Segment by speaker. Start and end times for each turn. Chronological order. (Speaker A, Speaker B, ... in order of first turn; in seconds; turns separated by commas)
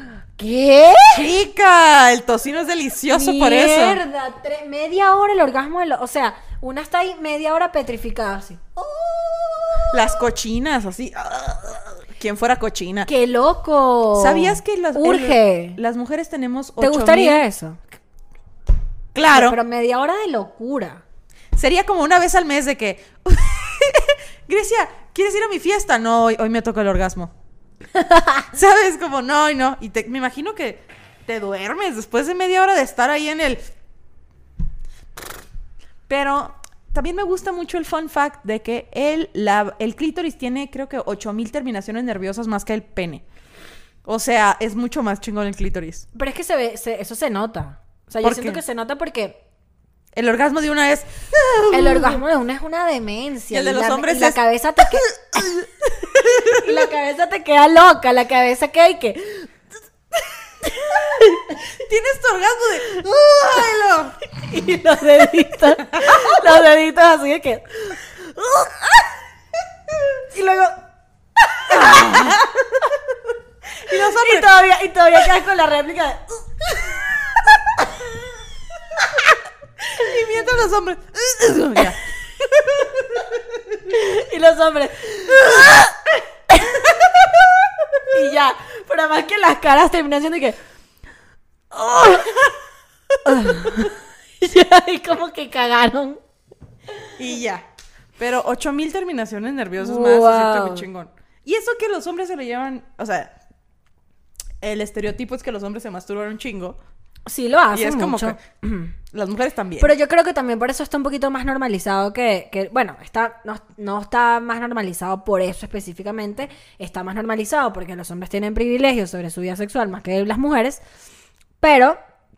Speaker A: 0.4-1.3, Speaker B: 1.1-4.0, Speaker A: 3.1-9.9, Speaker B: 9.9-13.1, Speaker A: 13.1-15.8, Speaker B: 14.1-17.4, Speaker A: 16.8-17.8, Speaker B: 19.1-19.6, Speaker A: 19.3-21.0, Speaker B: 21.5-27.3, Speaker A: 28.0-28.4, Speaker B: 28.5-33.6, Speaker B: 36.1-43.2, Speaker B: 44.0-46.0, Speaker A: 46.1-49.4, Speaker B: 48.2-48.6, Speaker B: 50.1-52.2, Speaker A: 51.7-55.1, Speaker B: 53.5-56.9, Speaker A: 56.4-59.5, Speaker B: 60.6-64.2, Speaker A: 60.7-61.6, Speaker A: 64.4-68.7, Speaker B: 65.9-66.4, Speaker A: 70.3-70.8, Speaker A: 71.5-72.9, Speaker B: 71.7-72.5, Speaker A: 73.8-77.9, Speaker B: 73.8-74.5, Speaker B: 79.9-83.3, Speaker A: 83.8-86.0, Speaker A: 86.5-87.3, Speaker A: 88.1-90.6, Speaker A: 91.8-92.5, Speaker A: 93.2-96.2, Speaker B: 97.2-97.6, Speaker B: 98.2-103.3, Speaker A: 99.8-100.9, Speaker B: 104.6-106.8, Speaker A: 107.3-108.9, Speaker B: 107.7-108.4, Speaker B: 109.1-109.9, Speaker A: 109.8-120.8, Speaker A: 121.6-122.0